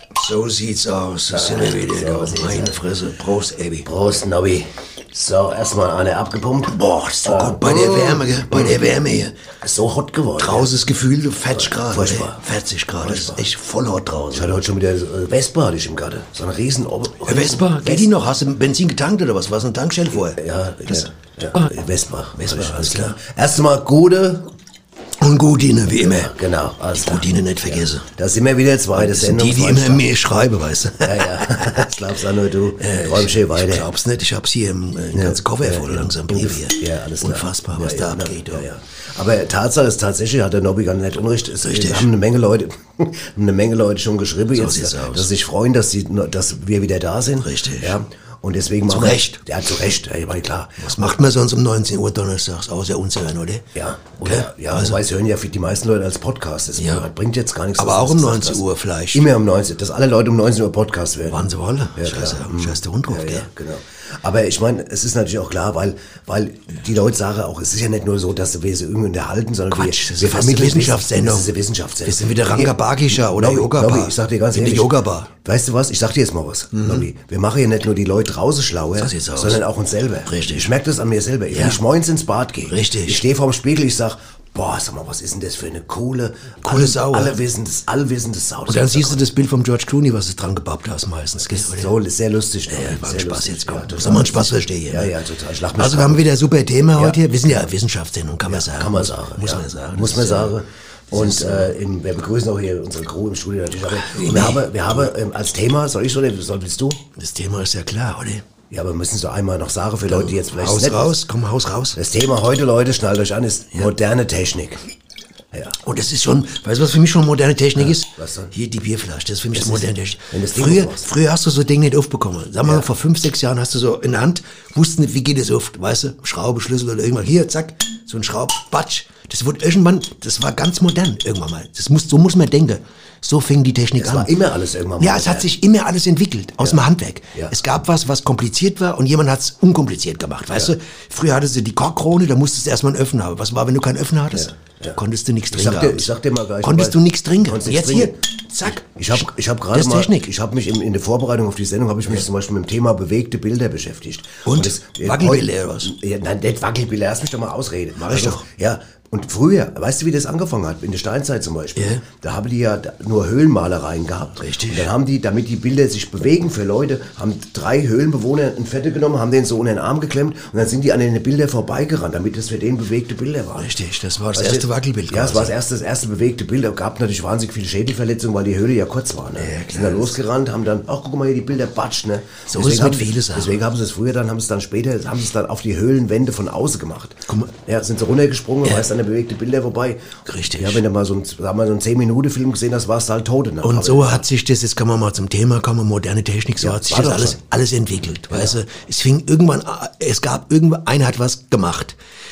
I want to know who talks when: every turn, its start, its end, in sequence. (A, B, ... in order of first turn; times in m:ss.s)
0:00.1-0:03.9 A
0:01.3-0:02.8 B
0:03.8-0:08.8 B
0:06.7-0:09.3 A
0:09.6-0:10.7 B
0:10.4-0:14.5 A
0:11.8-0:12.4 B
0:13.0-0:13.4 B
0:14.3-0:18.1 B
0:17.2-0:21.7 A
0:20.1-0:24.5 B
0:22.4-0:23.2 A
0:25.2-0:26.3 A
0:26.0-0:30.0 B
0:27.0-0:28.1 A
0:29.0-0:31.8 A
0:31.0-0:33.9 B
0:32.8-0:38.7 A
0:35.1-0:51.1 B
0:41.6-0:42.1 A
0:44.5-0:45.3 A
0:47.4-0:48.0 A
0:48.9-0:49.4 A
0:50.8-0:53.6 A
0:53.7-0:58.6 B
0:54.2-0:55.0 A
0:56.8-0:57.1 A
0:57.8-0:59.3 A
0:59.1-1:01.4 B
1:01.3-1:03.5 A
1:02.0-1:29.2 B
1:09.7-1:11.5 A
1:12.0-1:15.3 A
1:16.7-1:17.0 A
1:19.0-1:19.6 A
1:20.2-1:20.7 A
1:21.5-1:21.8 A
1:22.6-1:23.2 A
1:26.6-1:27.4 A
1:28.7-1:31.9 A
1:31.5-1:36.2 B
1:32.7-1:35.1 A
1:35.8-1:40.5 A
1:38.5-1:47.0 B
1:41.1-1:41.7 A
1:44.0-1:44.9 A
1:47.2-1:48.4 A
1:48.7-1:51.2 B
1:50.1-1:52.0 A
1:52.0-1:54.8 B
1:55.8-2:14.3 A
1:57.8-1:58.5 B
1:59.5-2:01.0 B
2:14.0-2:15.5 B
2:15.0-2:26.1 A
2:24.3-2:25.0 B
2:25.5-2:53.7 B
2:26.6-2:30.3 A
2:34.4-2:35.9 A
2:38.0-2:38.4 A
2:41.8-2:42.0 A
2:44.4-2:44.9 A
2:53.6-2:55.5 A
2:54.3-3:10.0 B
2:59.4-3:00.1 A
3:02.5-3:03.6 A
3:10.3-3:10.8 A
3:10.6-3:14.2 B
3:13.6-3:22.0 A
3:16.6-3:17.4 B
3:18.3-3:18.6 B